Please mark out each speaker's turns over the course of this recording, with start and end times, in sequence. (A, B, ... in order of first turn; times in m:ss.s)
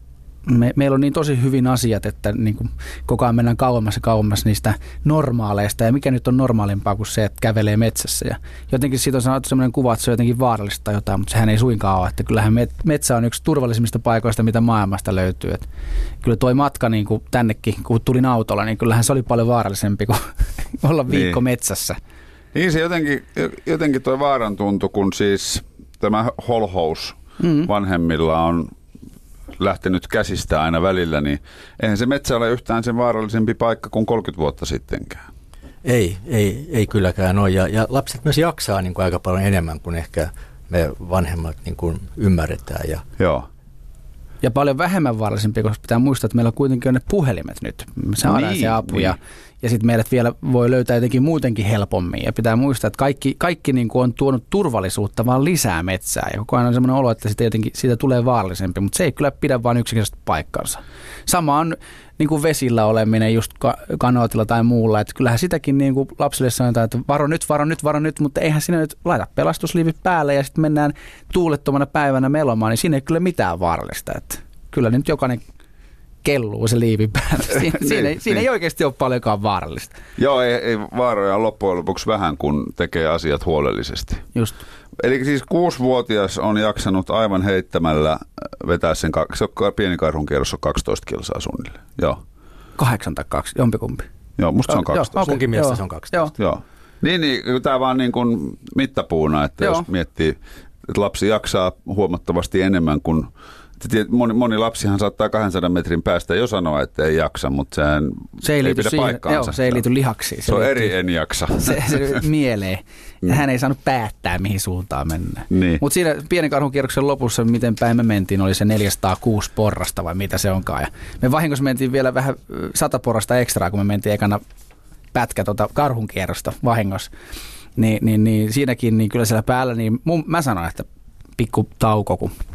0:00.4-0:15.7 A
0:16.2-0:22.0 A
0:21.1-0:21.4 B
0:22.5-0:28.7 B
0:27.4-0:27.7 A
0:29.6-0:35.2 B
0:35.8-0:43.0 C
0:43.2-0:43.5 B
0:44.4-1:15.4 A
0:48.2-0:49.1 B
1:16.2-1:20.0 A
1:17.5-1:18.4 B
1:20.2-1:24.2 B
1:25.0-1:32.2 B
1:32.8-1:34.0 A
1:34.4-1:35.2 B
1:34.7-1:36.3 A
1:35.2-1:36.3 C
1:36.4-1:49.8 B
1:39.6-1:39.8 A
1:48.4-1:50.9 A
1:50.4-1:52.2 B
1:51.6-2:04.4 A
1:55.5-1:55.8 B
2:05.1-2:07.1 A
2:07.8-2:10.8 A
2:11.4-2:12.3 A